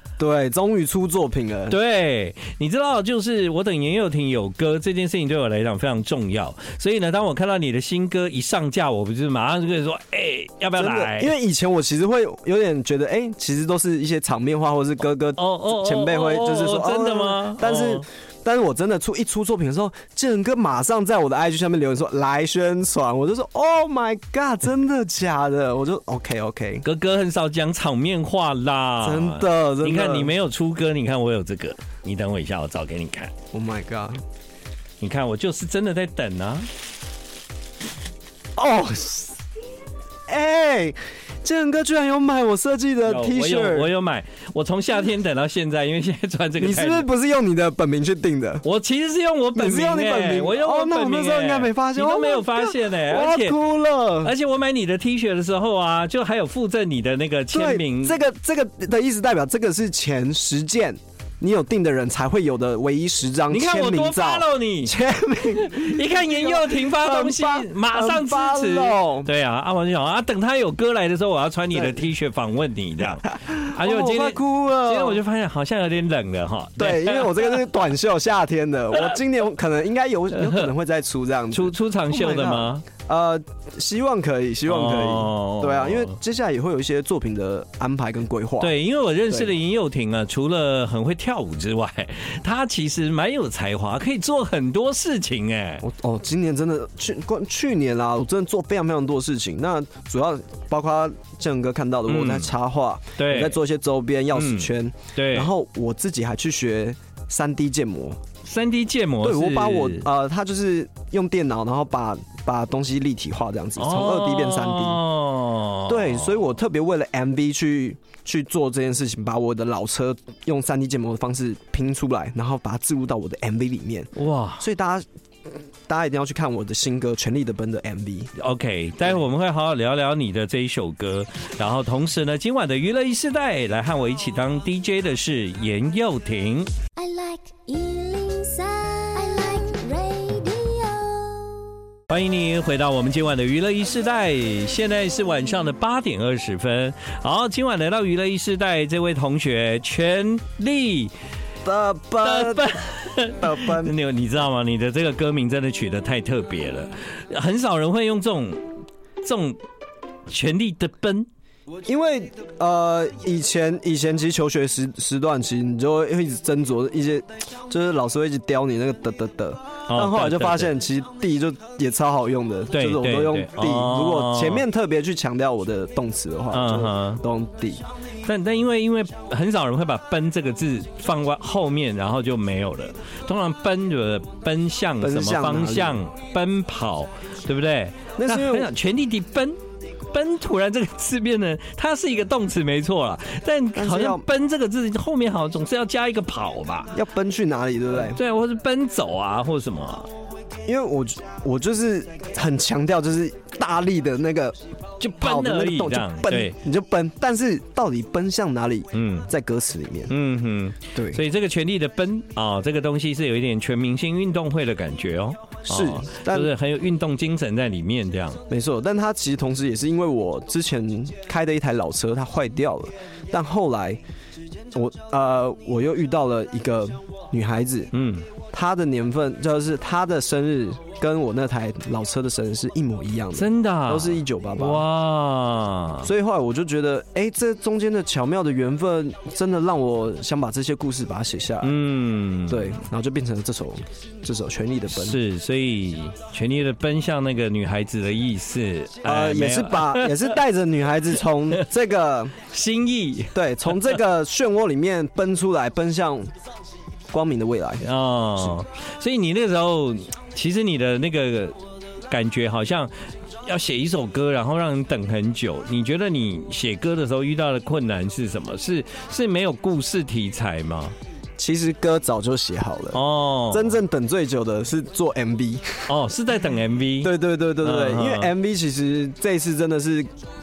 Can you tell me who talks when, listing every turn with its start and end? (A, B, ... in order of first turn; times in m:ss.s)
0:00.2-0:01.8 A
0:01.7-0:11.3 B
0:10.8-0:26.8 A
0:15.4-0:18.0 B
0:26.8-0:33.3 B
0:29.0-0:30.3 A
0:33.5-0:34.2 A
0:35.0-0:36.7 B
0:38.6-0:39.4 A
0:40.3-0:43.9 A
0:43.0-0:47.1 B
0:46.6-0:48.6 A
0:48.6-0:53.6 B
0:49.6-0:54.3 A
0:54.2-0:58.2 B
0:57.5-1:09.3 A
1:03.5-1:04.9 B
1:05.6-1:17.6 B
1:11.7-1:12.0 A
1:13.5-1:15.2 A
1:16.8-1:28.7 A
1:20.4-1:20.7 B
1:21.5-1:22.8 B
1:24.7-1:26.1 B
1:28.6-1:35.8 B
1:35.8-1:48.2 A
1:42.1-1:42.5 B
1:43.2-1:43.6 B
1:44.4-1:45.5 B
1:48.4-1:50.1 B
1:49.2-1:55.0 A
1:53.8-1:56.3 B
1:55.9-2:05.0 A
2:04.2-2:04.6 B
2:05.9-2:08.3 A
2:08.4-2:16.7 B
2:17.0-2:21.7 C
2:22.1-2:31.1 B
2:31.6-2:32.8 A
2:32.2-2:38.6 B
2:33.4-2:33.9 A
2:39.2-2:39.6 B
2:40.3-2:41.3 B
2:41.8-2:57.8 A
2:49.9-2:50.7 B
2:52.7-2:54.6 B
2:56.5-2:57.2 B
2:58.2-3:09.6 B
3:05.0-3:06.0 A
3:08.2-3:08.7 A
3:10.1-3:17.0 B
3:13.8-3:14.3 A
3:16.9-3:18.2 A
3:17.9-3:20.1 B
3:20.7-3:24.6 A
3:25.0-3:26.6 B
3:25.2-3:30.1 A
3:28.9-3:29.3 B
3:30.1-3:38.4 B
3:31.0-3:31.2 A
3:35.6-3:36.5 A
3:38.5-3:44.0 A
3:44.7-3:47.9 A
3:47.9-3:48.3 B
3:48.5-3:54.8 A
3:53.4-3:56.1 B
3:56.0-4:01.8 A
4:01.6-4:02.8 B
4:02.5-4:05.2 A
4:04.9-4:10.3 B
4:09.0-4:12.4 A
4:12.4-4:14.0 B
4:13.4-4:16.3 A
4:17.1-4:17.8 A
4:17.8-4:21.6 B
4:22.1-4:22.9 B
4:23.4-4:31.0 B
4:31.4-4:35.9 A
4:32.9-4:33.8 B
4:35.9-4:38.3 B
4:37.0-4:40.1 A